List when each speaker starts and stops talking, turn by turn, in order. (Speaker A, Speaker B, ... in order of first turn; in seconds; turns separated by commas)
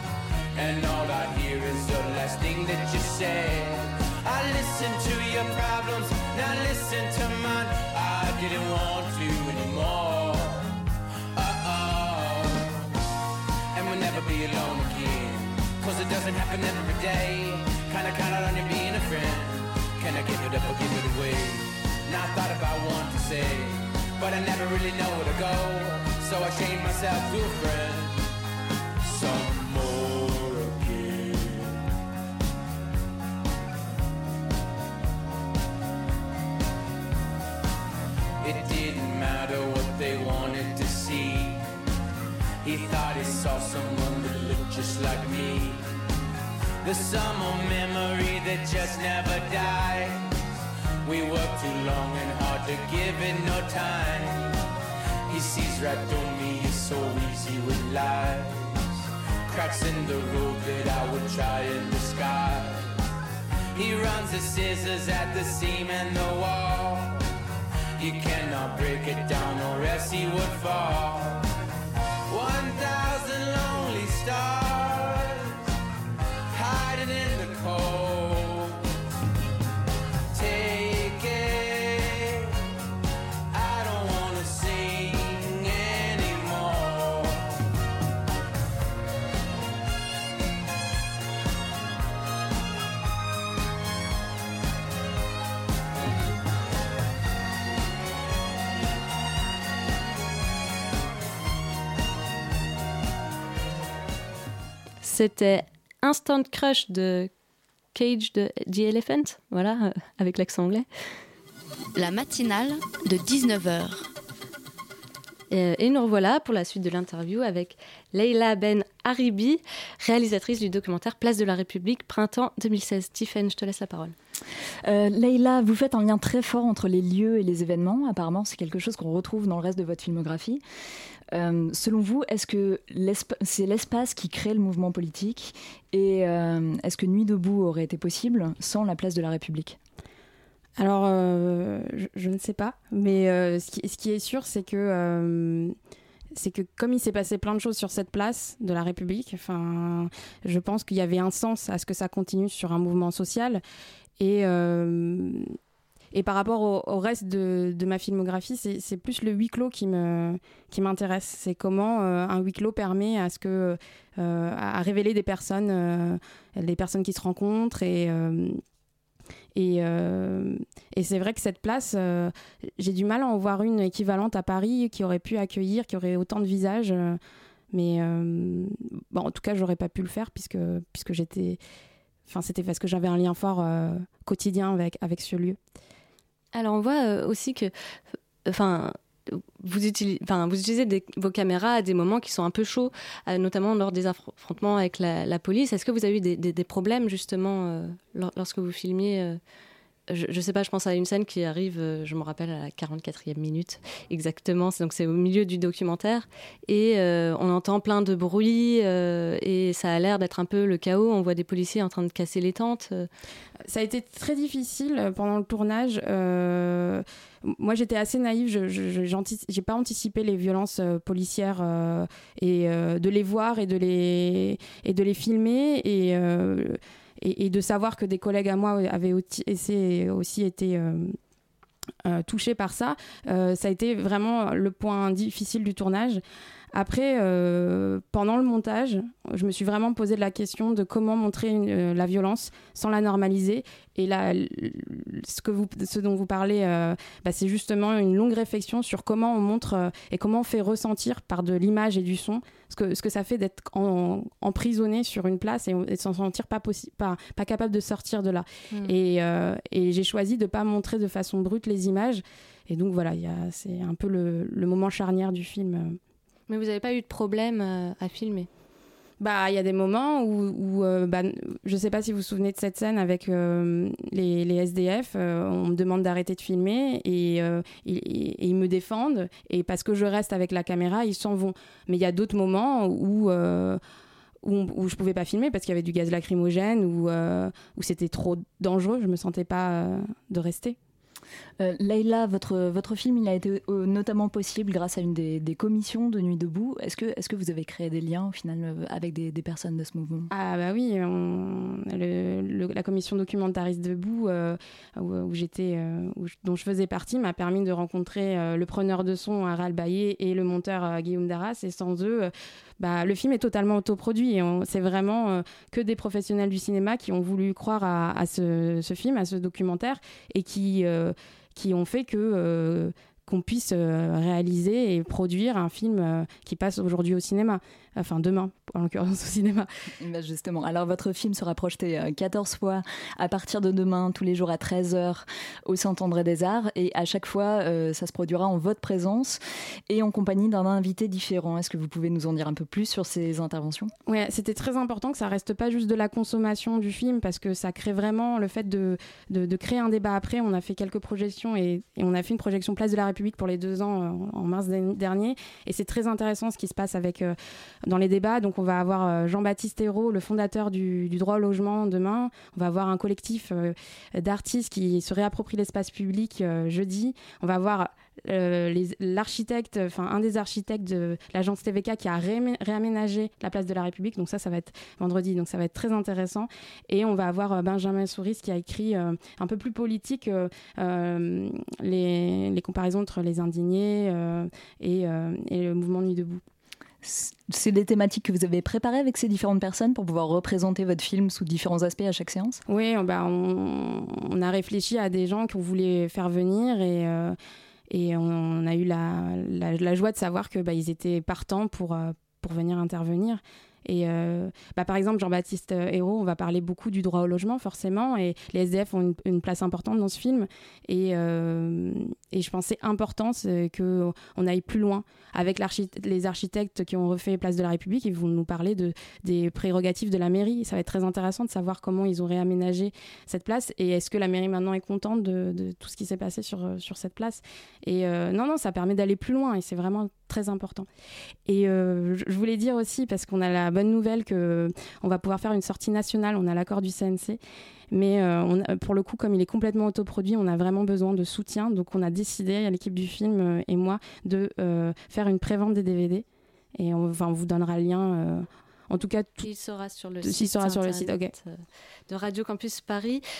Speaker A: 0.5-10.7, Speaker A: 11.3-12.9, Speaker A: 13.7-28.2, Speaker A: 29.0-31.8, Speaker A: 38.4-41.6, Speaker A: 42.6-45.8, Speaker A: 46.8-50.3, Speaker A: 51.0-54.5, Speaker A: 55.3-58.8, Speaker A: 59.5-62.9, Speaker A: 63.7-67.2, Speaker A: 68.0-71.4, Speaker A: 72.3-75.6, Speaker A: 76.5-78.9, Speaker A: 80.3-82.5, Speaker A: 83.5-87.5, Speaker B: 105.0-107.3, Speaker B: 107.9-110.8, Speaker C: 111.9-114.1, Speaker B: 115.5-124.1, Speaker D: 124.8-130.6, Speaker D: 131.3-139.8, Speaker E: 140.8-145.7, Speaker E: 146.3-153.6, Speaker E: 154.2-155.5, Speaker E: 156.1-168.6, Speaker E: 169.5-177.2, Speaker E: 177.7-181.6, Speaker E: 182.3-185.6, Speaker B: 186.5-187.7, Speaker B: 188.4-199.4, Speaker B: 200.1-213.1, Speaker E: 213.7-231.1, Speaker E: 232.1-236.2, Speaker E: 236.7-266.0, Speaker B: 266.5-268.5, Speaker E: 269.2-283.8, Speaker E: 284.4-290.8, Speaker D: 291.6-300.3, Speaker E: 300.3-329.7, Speaker D: 330.0-343.9, Speaker E: 344.1-357.4, Speaker E: 357.9-386.4, Speaker D: 387.0-392.6, Speaker E: 392.7-397.4, Speaker E: 397.9-430.9, Speaker E: 431.5-437.4, Speaker E: 437.9-446.2, Speaker E: 446.8-449.5, Speaker B: 449.4-453.2, Speaker E: 450.2-451.3